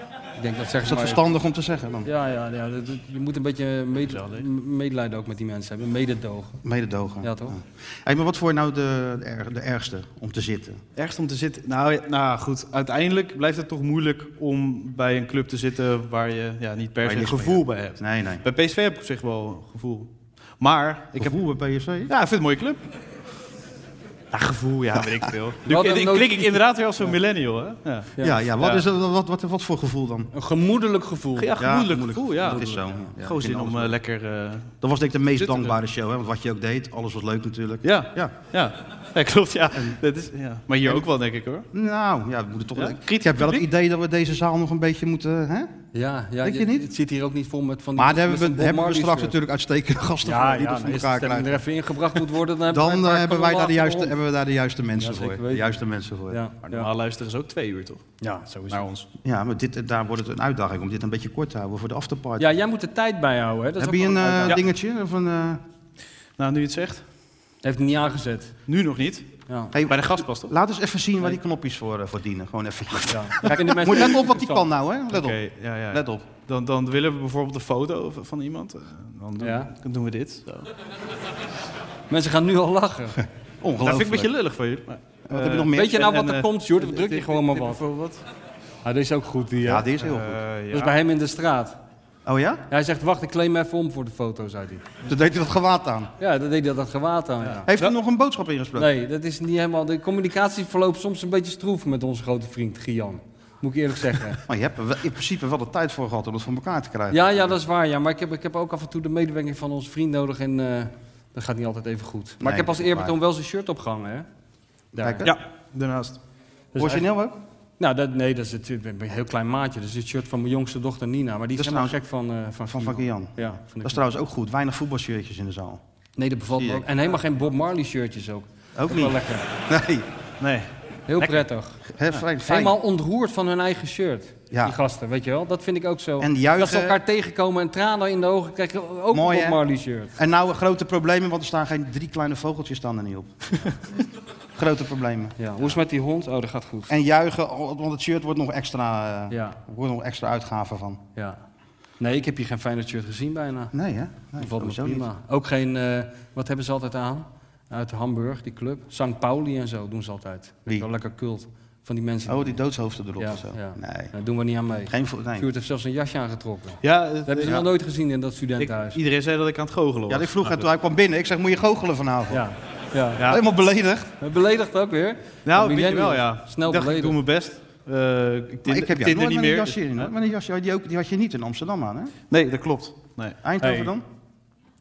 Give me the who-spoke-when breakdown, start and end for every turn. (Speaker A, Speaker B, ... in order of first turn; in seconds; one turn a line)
Speaker A: 0.4-1.2
Speaker B: 0.8-2.1
Speaker A: 2.0-6.6
Speaker C: 4.1-4.4
Speaker B: 6.6-10.8
Speaker A: 7.2-7.5
Speaker C: 10.9-21.4
Speaker B: 17.0-18.4
Speaker B: 21.2-22.1
Speaker C: 22.1-22.8
Speaker C: 24.3-28.8
Speaker A: 25.7-27.1
Speaker B: 28.2-30.3
Speaker A: 30.3-31.6
Speaker C: 31.4-34.8
Speaker B: 31.6-34.0
Speaker A: 32.5-33.0
Speaker B: 34.8-38.4
Speaker C: 35.4-35.7
Speaker C: 37.8-41.6
Speaker B: 41.7-45.7
Speaker C: 42.8-43.6
Speaker A: 45.9-49.4
Speaker B: 46.4-46.9
Speaker B: 48.0-51.6
Speaker A: 50.2-54.1
Speaker B: 52.7-56.4
Speaker A: 55.0-55.7
Speaker A: 56.3-56.9
Speaker C: 56.7-58.0
Speaker A: 58.2-58.8
Speaker C: 58.7-59.1
Speaker B: 59.2-62.6
Speaker A: 62.4-64.6
Speaker B: 63.8-65.6
Speaker C: 66.4-67.0
Speaker A: 67.6-68.6
Speaker C: 68.7-69.2
Speaker A: 69.5-69.7
Speaker B: 69.7-76.2
Speaker C: 69.9-70.5
Speaker A: 73.1-74.6
Speaker C: 75.1-80.7
Speaker A: 79.4-79.7
Speaker A: 82.1-83.2
Speaker B: 83.6-84.3
Speaker C: 83.8-88.2
Speaker B: 85.3-86.0
Speaker A: 85.7-87.8
Speaker A: 88.8-89.9
Speaker B: 89.6-90.4
Speaker C: 90.0-91.0
Speaker A: 90.7-91.8
Speaker B: 92.2-92.6
Speaker A: 92.7-94.8
Speaker B: 95.0-96.1
Speaker A: 96.2-97.7
Speaker C: 97.4-97.9
Speaker B: 97.7-98.9
Speaker A: 98.8-104.4
Speaker B: 104.5-107.6
Speaker A: 107.1-114.2
Speaker B: 112.4-113.2
Speaker A: 114.9-115.3
Speaker B: 115.0-115.3
Speaker C: 115.2-116.2
Speaker A: 116.7-117.0
Speaker B: 116.8-117.4
Speaker A: 117.8-124.0
Speaker B: 121.5-122.0
Speaker B: 122.7-125.8
Speaker A: 126.2-129.4
Speaker B: 126.5-126.9
Speaker B: 128.8-130.1
Speaker C: 130.4-130.7
Speaker A: 131.1-131.8
Speaker B: 132.0-132.8
Speaker A: 132.4-140.1
Speaker B: 134.5-134.8
Speaker B: 136.2-137.0
Speaker B: 139.1-139.6
Speaker B: 140.1-143.7
Speaker B: 144.5-145.7
Speaker A: 145.4-146.9
Speaker B: 146.9-151.0
Speaker A: 149.3-149.6
Speaker A: 152.0-153.7
Speaker B: 153.7-155.1
Speaker A: 154.4-162.6
Speaker B: 162.3-164.1
Speaker A: 163.2-169.0
Speaker B: 164.9-165.4
Speaker C: 166.8-167.6
Speaker C: 168.6-170.6
Speaker B: 170.1-172.4
Speaker A: 172.3-173.2
Speaker C: 173.2-173.4
Speaker B: 173.2-174.1
Speaker A: 174.2-177.2
Speaker C: 175.4-180.1
Speaker B: 178.7-182.1
Speaker C: 182.3-183.4
Speaker B: 183.4-184.0
Speaker A: 183.6-183.9